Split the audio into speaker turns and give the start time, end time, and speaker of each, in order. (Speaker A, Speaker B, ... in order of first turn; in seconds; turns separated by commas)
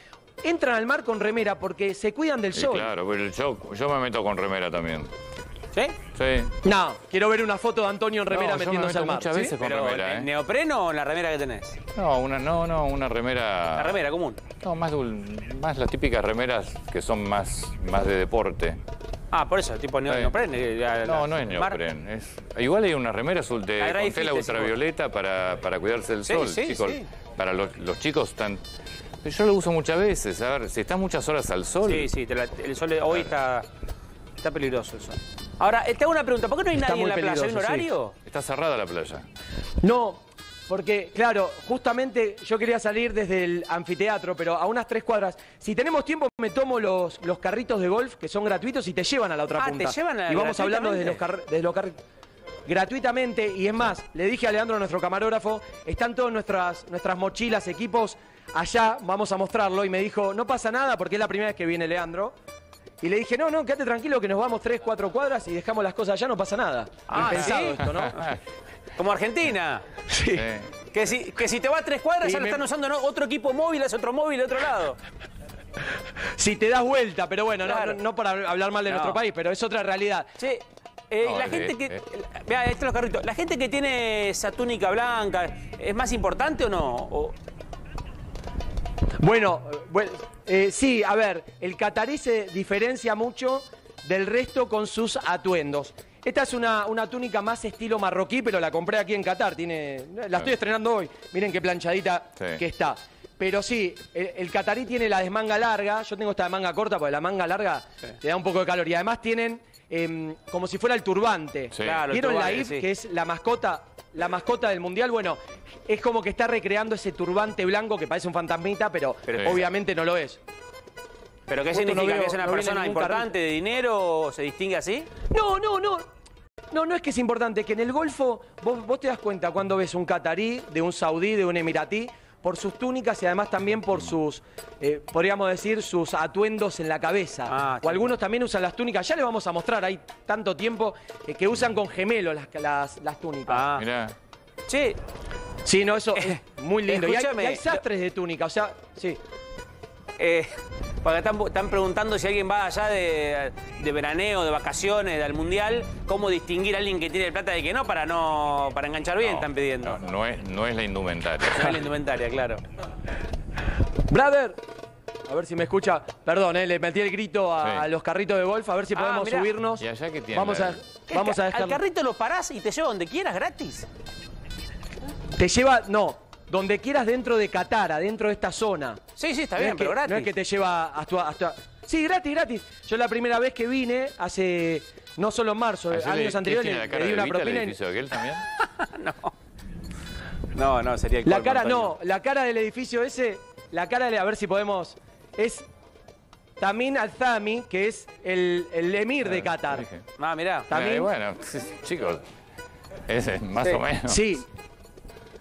Speaker A: 0.4-2.9, Speaker B: 2.5-5.1, Speaker B: 6.1-6.5, Speaker A: 6.6-9.6, Speaker B: 8.3-10.3, Speaker C: 9.6-11.8, Speaker B: 11.9-14.0, Speaker C: 13.7-14.4, Speaker B: 14.6-18.8, Speaker C: 19.3-21.8, Speaker B: 20.1-20.3, Speaker B: 21.0-28.6, Speaker C: 23.8-24.7, Speaker C: 26.2-27.1, Speaker B: 29.2-32.1, Speaker C: 31.8-33.7, Speaker C: 34.4-38.1, Speaker A: 36.8-37.9, Speaker B: 38.2-39.2, Speaker A: 39.8-52.0, Speaker C: 49.6-51.2, Speaker A: 52.6-62.3, Speaker A: 63.0-68.4, Speaker C: 67.1-68.3, Speaker B: 67.8-68.1, Speaker C: 69.0-69.8, Speaker A: 70.1-70.5, Speaker B: 70.3-70.7, Speaker C: 70.9-75.0, Speaker A: 72.2-72.7, Speaker A: 76.4-80.3, Speaker C: 77.6-78.0, Speaker C: 78.9-79.2, Speaker C: 80.4-87.3, Speaker B: 81.2-82.0, Speaker A: 89.2-120.4, Speaker B: 111.7-112.0, Speaker C: 111.8-112.8, Speaker C: 119.3-119.7, Speaker C: 121.5-125.1, Speaker A: 121.7-123.3, Speaker A: 125.3-126.0, Speaker A: 126.7-143.7, Speaker C: 137.5-138.1, Speaker C: 143.5-143.8, Speaker B: 143.8-144.1, Speaker C: 144.7-145.0, Speaker A: 145.6-149.2, Speaker C: 146.2-147.8, Speaker C: 150.2-160.0, Speaker B: 159.2-161.8, Speaker C: 161.4-162.6, Speaker A: 164.1-164.6, Speaker A: 165.3-171.8, Speaker B: 167.6-167.9, Speaker C: 168.9-169.5, Speaker B: 169.8-170.8, Speaker C: 171.1-173.9, Speaker A: 175.4-179.0, Speaker C: 179.2-180.3, Speaker A: 179.6-187.8, Speaker B: 185.9-188.4, Speaker C: 188.8-189.3, Speaker C: 190.5-191.9, Speaker A: 191.2-195.7, Speaker A: 196.6-199.9, Speaker B: 199.3-200.0, Speaker C: 200.2-200.7, Speaker A: 200.7-201.1, Speaker B: 200.7-202.2, Speaker B: 203.1-204.4, Speaker A: 204.1-204.4